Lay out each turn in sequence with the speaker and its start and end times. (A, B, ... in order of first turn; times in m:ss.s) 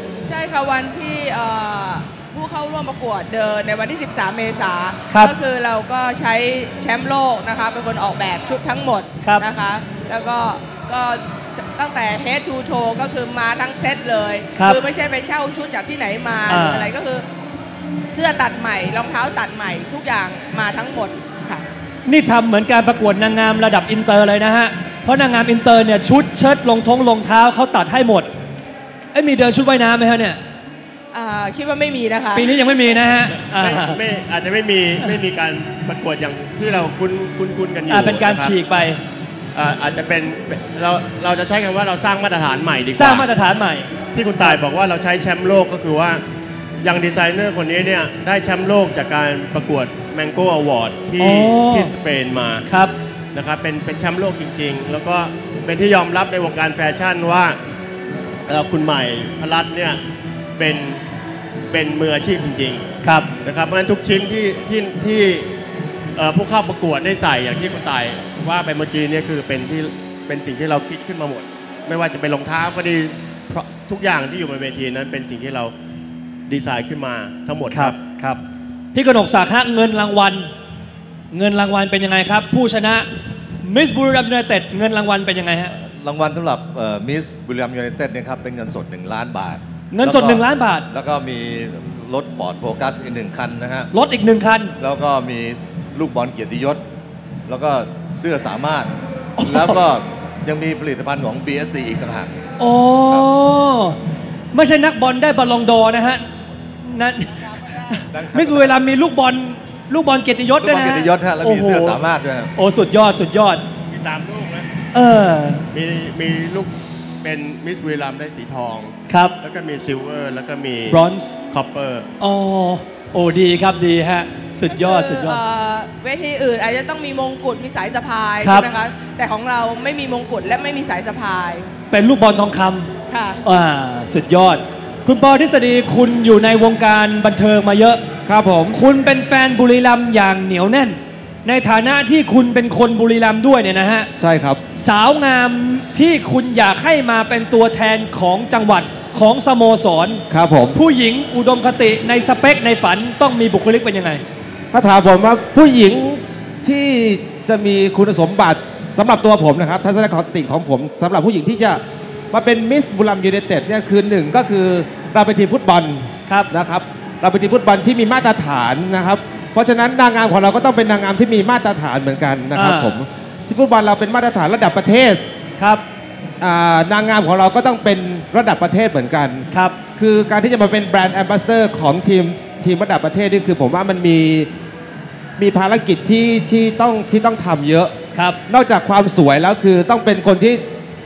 0:00.2-0:17.2 A
0:16.5-0:16.9 B
0:18.1-0:21.6 A
0:22.0-0:28.3 B
0:29.1-0:30.4 B
0:31.1-0:32.6 A
0:32.3-0:34.0 B
0:33.4-0:38.6 C
0:37.9-0:39.0 B
0:39.5-0:43.3 C
0:42.9-0:43.9 B
0:44.1-0:46.2 C
0:46.8-0:52.6 C
0:51.2-0:51.9 B
0:52.7-0:52.9 B
0:53.3-0:57.6 C
0:58.5-1:00.0 C
1:00.6-1:01.0 C
1:01.7-1:02.8 C
1:03.0-1:03.3 B
1:03.4-1:05.5 C
1:06.2-1:15.7 C
1:16.5-1:18.0 C
1:17.7-1:18.4 B
1:18.9-1:20.5 B
1:21.3-1:23.1 B
1:23.6-1:25.7 B
1:25.7-1:33.9 D
1:29.9-1:30.9 B
1:33.9-1:34.7 B
1:34.8-1:36.8 D
1:37.5-1:42.4 D
1:39.4-1:39.8 B
1:42.6-1:44.0 B
1:44.5-1:46.3 B
1:46.8-1:52.0 B
1:48.1-1:48.7 D
1:50.6-1:52.5 D
1:52.5-1:53.6 B
1:53.9-1:54.6 C
1:54.9-1:55.6 B
1:55.7-2:02.1 C
1:59.1-1:59.3 B
2:00.9-2:01.4 B
2:02.2-2:05.4 B
2:04.7-2:11.6 A
2:08.4-2:08.6 B
2:11.9-2:12.9 B
2:13.1-2:13.4 A
2:13.4-2:18.0 B
2:18.2-2:18.8 E
2:18.7-2:24.1 B
2:24.2-2:24.6 E
2:24.8-2:30.2 B
2:30.3-2:30.8 E
2:30.7-2:34.2 B
2:34.7-2:55.2 E
2:52.6-2:53.0 B
2:55.6-2:55.8 B
2:56.4-3:04.5 E
2:59.5-2:59.8 B
3:05.4-3:10.6 E